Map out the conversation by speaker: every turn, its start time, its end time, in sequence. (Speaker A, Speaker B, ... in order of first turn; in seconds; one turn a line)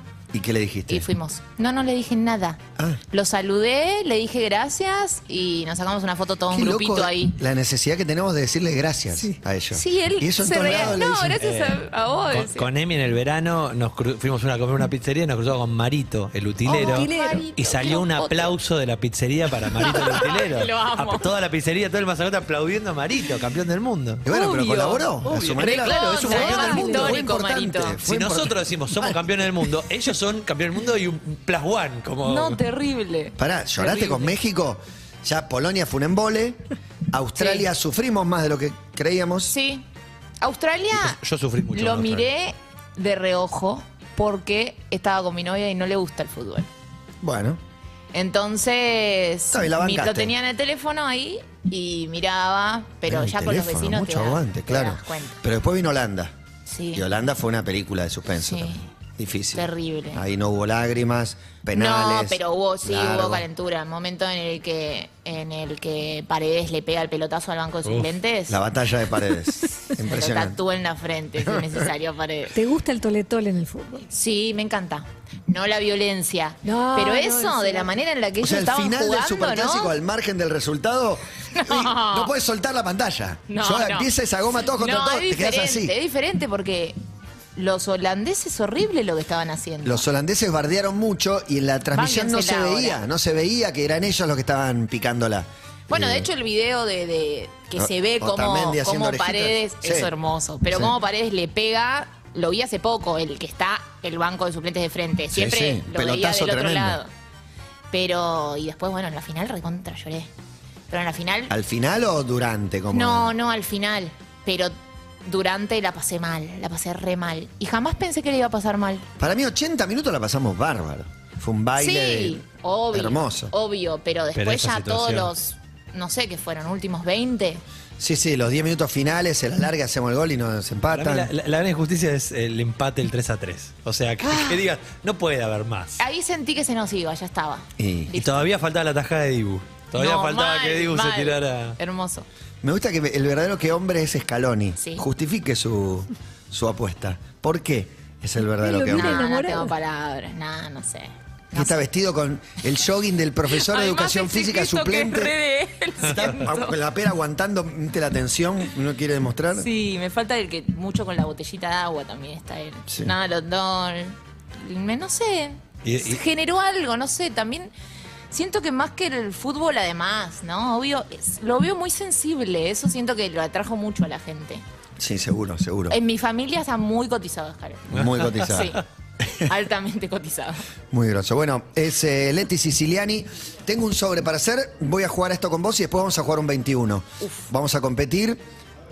Speaker A: 0.3-1.1
Speaker B: 0.9-7.4
Speaker A: 6.5-11.4
Speaker B: 9.7-12.7
Speaker C: 10.6-24.2
Speaker B: 16.6-18.5
Speaker D: 16.7-17.4
Speaker B: 19.7-21.3
Speaker A: 24.2-29.2
Speaker B: 24.2-28.0
Speaker C: 25.2-26.9
Speaker D: 26.2-27.1
Speaker C: 28.0-32.6
Speaker B: 32.2-34.3
Speaker A: 33.4-39.5
Speaker B: 37.4-37.7
Speaker B: 39.5-39.9
Speaker B: 40.4-41.2
Speaker C: 41.0-42.3
Speaker B: 41.7-46.7
Speaker A: 47.2-47.6
Speaker B: 48.1-55.4
Speaker A: 49.5-50.3
Speaker A: 53.0-56.3
Speaker B: 56.7-57.0
Speaker A: 56.9-63.5
Speaker B: 58.4-58.8
Speaker B: 59.5-60.2
Speaker B: 61.7-68.6
Speaker A: 68.5-70.6
Speaker B: 69.9-72.5
Speaker A: 71.4-71.8
Speaker D: 72.5-74.0
Speaker B: 74.0-79.9
Speaker D: 76.6-77.9
Speaker A: 78.4-85.9
Speaker B: 81.5-82.3
Speaker B: 83.5-84.1
Speaker B: 84.7-87.0
Speaker B: 87.5-90.1
Speaker A: 89.8-96.3
Speaker B: 91.9-93.0
Speaker B: 95.9-107.1
Speaker A: 97.8-100.1
Speaker A: 105.3-107.0
Speaker B: 107.9-110.3
Speaker B: 110.9-111.5
Speaker A: 111.5-113.3
Speaker B: 112.9-119.1
Speaker A: 119.2-123.5
Speaker B: 121.8-127.6
Speaker C: 124.3-125.3
Speaker A: 128.0-131.3
Speaker C: 130.9-136.0
Speaker B: 136.0-138.4
Speaker A: 137.8-138.4
Speaker C: 138.2-141.8
Speaker B: 139.9-142.2
Speaker A: 142.6-149.2
Speaker B: 144.8-145.0
Speaker D: 148.4-149.7
Speaker B: 148.9-151.8
Speaker A: 151.5-155.3
Speaker B: 153.5-156.8
Speaker A: 156.0-159.7
Speaker B: 159.5-167.7
Speaker A: 162.9-163.1
Speaker C: 165.8-166.2
Speaker B: 168.3-174.6
Speaker A: 175.0-176.0
Speaker B: 175.9-178.8
Speaker A: 177.9-179.5
Speaker C: 178.0-178.3
Speaker B: 179.4-180.6
Speaker A: 180.9-188.4